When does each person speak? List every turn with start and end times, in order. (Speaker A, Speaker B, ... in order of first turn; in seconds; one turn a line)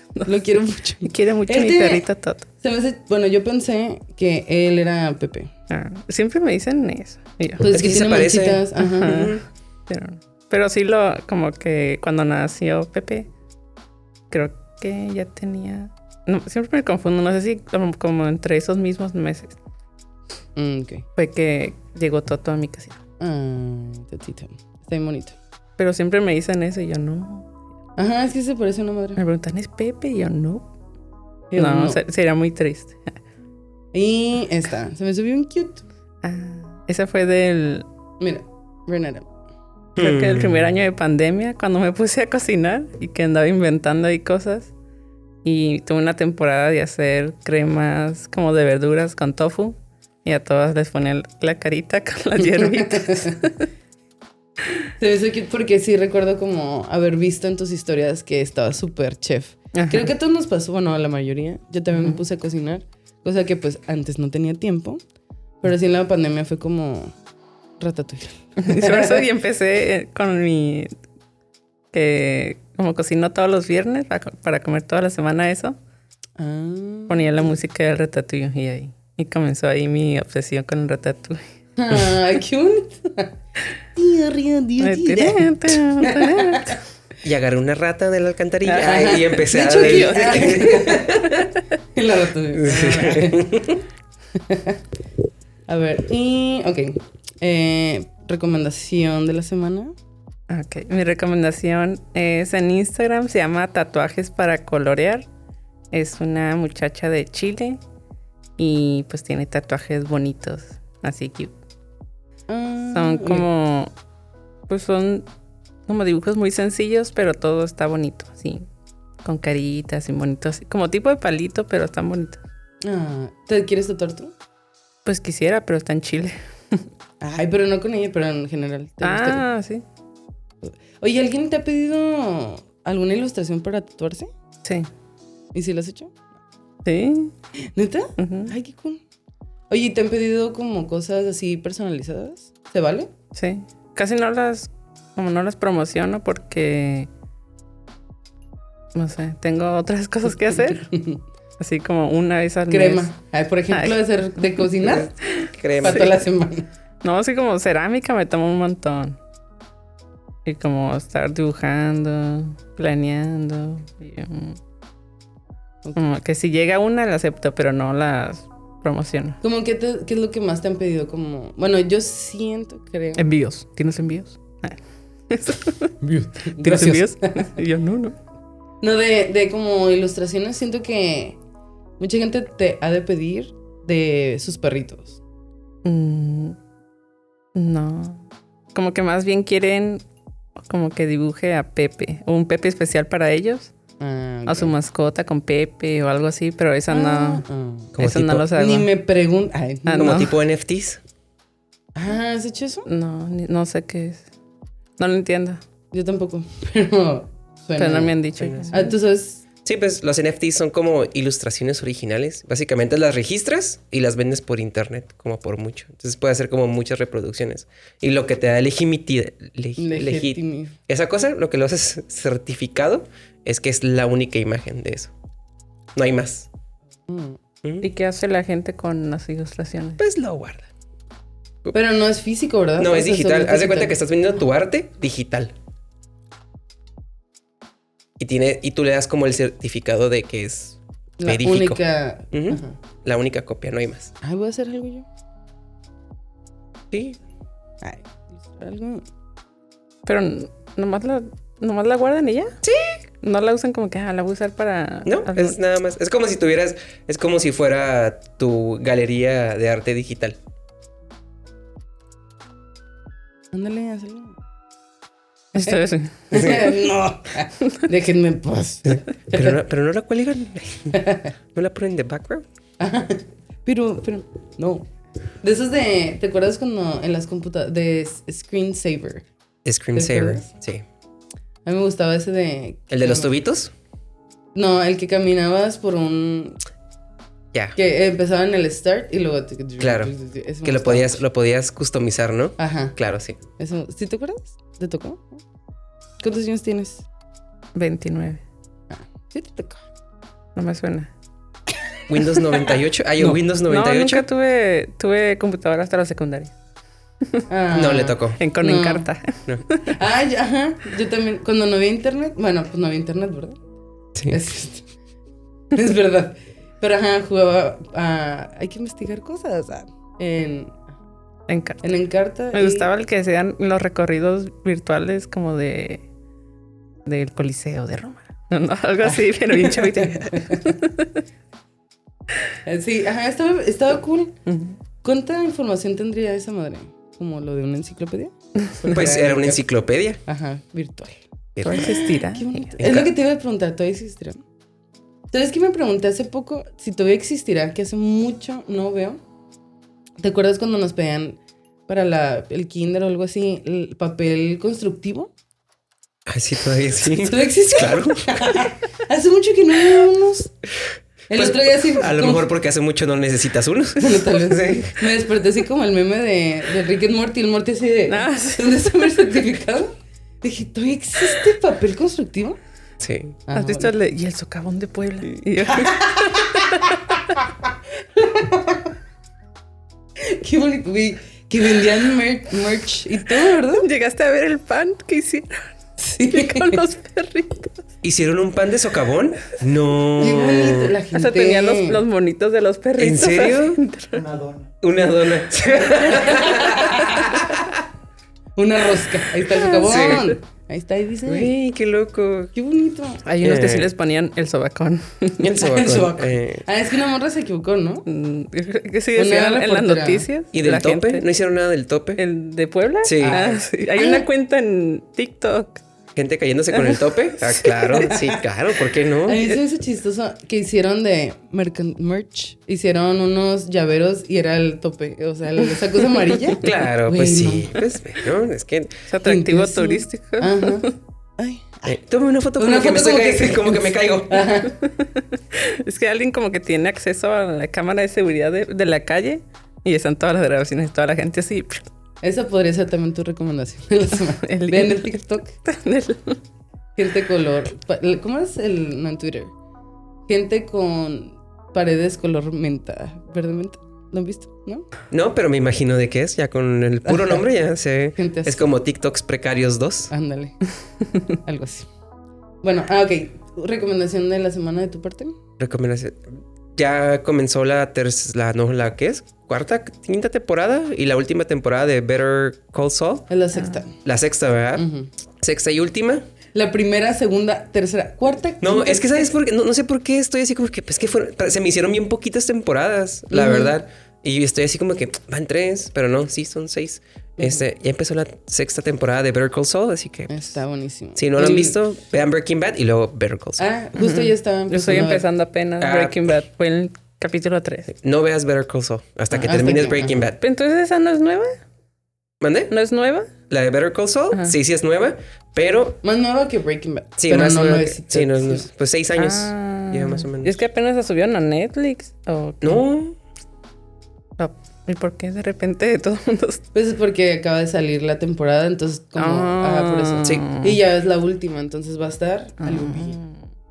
Speaker A: 0.2-2.0
Speaker B: 1.0-2.5
Speaker A: 2.6-5.5
Speaker B: 5.7-7.7
Speaker A: 7.6-9.3
Speaker C: 7.7-9.4
Speaker B: 8.8-13.3
Speaker B: 14.3-19.6
Speaker A: 20.6-21.1
Speaker B: 21.1-23.0
Speaker A: 23.2-25.4
Speaker B: 25.8-27.5
Speaker A: 28.0-29.2
Speaker B: 29.2-30.7
Speaker A: 31.5-32.0
Speaker B: 31.6-33.2
Speaker A: 33.9-35.8
Speaker B: 36.2-37.9
Speaker A: 38.2-39.3
Speaker C: 40.0-40.6
Speaker B: 40.0-44.7
Speaker B: 45.4-53.7
Speaker A: 52.4-53.4
Speaker A: 55.0-65.0
Speaker B: 59.7-60.1
Speaker A: 65.6-67.1
Speaker A: 67.8-69.3
Speaker B: 68.6-70.9
Speaker B: 71.9-75.8
Speaker A: 76.4-77.5
Speaker B: 77.1-81.4
Speaker A: 81.8-83.3
Speaker A: 83.9-86.8
Speaker B: 84.8-86.8
Speaker C: 87.2-91.5
Speaker B: 88.6-91.0
Speaker A: 88.8-91.3
Speaker A: 91.9-93.7
Speaker C: 92.5-93.8
Speaker A: 94.3-94.8
Speaker A: 95.7-99.9
Speaker B: 100.5-105.2
Speaker B: 105.9-107.8
Speaker B: 108.6-111.5
Speaker A: 112.5-113.5
Speaker B: 112.9-113.9
Speaker B: 114.7-115.2
Speaker B: 115.9-118.7
Speaker B: 119.2-122.4
Speaker A: 122.8-124.3
Speaker B: 125.0-126.9
Speaker A: 127.2-129.4
Speaker B: 129.0-129.8
Speaker A: 130.6-134.3
Speaker A: 135.5-136.2
Speaker B: 136.8-137.3
Speaker A: 137.6-139.0
Speaker B: 138.2-138.5
Speaker A: 139.7-143.1
Speaker B: 143.3-147.1
Speaker B: 148.9-150.9
Speaker A: 150.7-151.2
Speaker B: 151.6-153.1
Speaker A: 152.7-155.1
Speaker B: 153.7-156.1
Speaker C: 154.8-156.1
Speaker A: 155.8-156.7
Speaker B: 157.0-159.2
Speaker B: 160.4-164.6
Speaker B: 165.9-169.4
Speaker A: 169.4-173.2
Speaker B: 173.2-175.9
Speaker A: 176.0-177.5
Speaker B: 176.6-178.2
Speaker A: 178.8-181.4
Speaker A: 182.0-185.2
Speaker B: 185.8-186.6
Speaker B: 187.5-190.0
Speaker B: 190.6-193.7
Speaker A: 194.0-194.7
Speaker B: 194.5-197.4
Speaker A: 196.9-197.9
Speaker C: 197.9-198.5
Speaker B: 198.0-198.9
Speaker A: 198.5-200.2
Speaker B: 199.9-200.3
Speaker C: 200.0-201.0
Speaker A: 201.9-202.9
Speaker B: 202.9-204.2
Speaker B: 205.0-205.6
Speaker A: 205.9-208.2
Speaker B: 207.8-208.9
Speaker C: 208.4-208.7
Speaker A: 208.7-209.4
Speaker C: 209.6-225.1
Speaker A: 219.8-220.8
Speaker C: 225.9-226.5
Speaker A: 227.1-227.4
Speaker B: 227.8-230.0
Speaker C: 230.0-230.7
Speaker A: 231.7-234.0
Speaker C: 232.8-235.5
Speaker C: 238.2-241.8
Speaker A: 241.2-242.8
Speaker C: 242.3-244.1
Speaker A: 244.2-245.1
Speaker C: 246.9-247.2
Speaker A: 247.8-249.0
Speaker B: 250.1-252.6
Speaker C: 252.6-253.0
Speaker B: 253.2-255.6
Speaker C: 255.1-260.4
Speaker A: 263.5-264.4
Speaker B: 265.5-266.6
Speaker A: 265.6-269.6
Speaker C: 268.9-271.0
Speaker A: 270.9-271.3
Speaker C: 271.5-272.4
Speaker A: 272.8-274.9
Speaker A: 275.4-279.2
Speaker C: 279.6-280.8
Speaker A: 279.9-280.5
Speaker A: 281.6-283.3
Speaker C: 282.9-283.7
Speaker A: 284.5-286.6
Speaker A: 287.8-291.2
Speaker C: 289.8-290.1
Speaker C: 290.6-293.4
Speaker A: 292.6-292.9
Speaker A: 293.6-295.4
Speaker A: 296.2-297.1
Speaker B: 297.7-298.4
Speaker A: 298.9-299.8
Speaker B: 300.5-301.1
Speaker C: 302.1-304.2
Speaker A: 302.7-303.4
Speaker B: 303.7-306.5
Speaker A: 307.5-309.1
Speaker C: 307.7-308.4
Speaker B: 308.4-309.9
Speaker A: 309.9-313.6
Speaker A: 314.3-314.9
Speaker A: 315.7-320.8
Speaker B: 321.5-321.8
Speaker A: 321.8-322.9
Speaker B: 322.5-326.0
Speaker B: 327.0-331.2
Speaker A: 329.1-330.8
Speaker A: 332.6-334.4
Speaker B: 334.5-334.8
Speaker A: 335.0-339.6
Speaker B: 338.7-339.1
Speaker C: 338.9-340.2
Speaker A: 340.2-341.2
Speaker C: 341.6-341.9
Speaker B: 341.6-342.8
Speaker A: 341.7-344.4
Speaker C: 342.8-343.1
Speaker A: 345.3-349.2
Speaker A: 350.2-355.3
Speaker C: 356.3-358.6
Speaker A: 357.1-360.5
Speaker A: 361.3-362.4
Speaker C: 361.3-365.0
Speaker A: 364.0-369.9
Speaker B: 368.1-369.1
Speaker A: 370.4-372.6
Speaker C: 373.0-373.4
Speaker A: 373.5-373.9
Speaker B: 373.5-377.2
Speaker A: 375.7-377.5
Speaker A: 378.1-378.9
Speaker A: 380.2-383.9
Speaker B: 383.5-385.8
Speaker A: 386.0-386.9
Speaker B: 386.3-387.9
Speaker C: 388.0-390.9
Speaker A: 390.2-392.0
Speaker B: 391.1-394.5
Speaker C: 393.0-393.8
Speaker C: 394.8-397.8
Speaker A: 396.1-397.4
Speaker A: 398.6-401.5
Speaker B: 399.7-400.1
Speaker C: 399.8-400.3
Speaker C: 401.2-402.5
Speaker A: 402.5-403.2
Speaker B: 403.2-405.6
Speaker C: 403.4-403.9
Speaker C: 405.4-406.6
Speaker A: 405.6-408.1
Speaker B: 408.1-411.2
Speaker A: 409.1-410.3
Speaker C: 410.5-412.2
Speaker B: 412.2-415.8
Speaker C: 413.0-413.4
Speaker A: 413.2-414.2
Speaker C: 416.1-419.5
Speaker B: 416.7-418.1
Speaker A: 419.2-427.8
Speaker C: 426.6-429.0
Speaker B: 429.1-430.9
Speaker A: 429.2-431.9
Speaker C: 431.9-434.5
Speaker A: 432.6-434.8
Speaker B: 434.8-441.9
Speaker A: 442.2-445.5
Speaker B: 444.3-446.4
Speaker A: 446.9-449.5
Speaker A: 450.3-454.9
Speaker C: 455.1-460.1
Speaker A: 458.2-458.7
Speaker A: 460.1-460.6
Speaker A: 461.3-461.9
Speaker A: 462.6-465.4
Speaker C: 465.6-473.3
Speaker A: 473.3-474.0
Speaker B: 473.5-473.8
Speaker C: 474.0-474.9
Speaker A: 474.8-475.1
Speaker C: 475.4-476.2
Speaker A: 476.5-479.3
Speaker C: 478.6-490.6
Speaker A: 483.3-483.8
Speaker A: 487.4-487.6
Speaker A: 490.3-491.8
Speaker C: 491.1-493.6
Speaker A: 493.6-495.2
Speaker B: 494.0-497.9
Speaker C: 495.8-496.3
Speaker C: 497.9-500.4
Speaker A: 499.3-500.2
Speaker B: 500.4-501.6
Speaker C: 502.4-502.7
Speaker B: 502.7-503.3
Speaker C: 503.5-506.0
Speaker A: 506.0-508.7
Speaker C: 507.2-510.6
Speaker B: 509.1-512.8
Speaker C: 512.6-513.2
Speaker B: 514.4-516.6
Speaker A: 516.7-523.2
Speaker B: 519.2-520.8
Speaker B: 522.6-523.4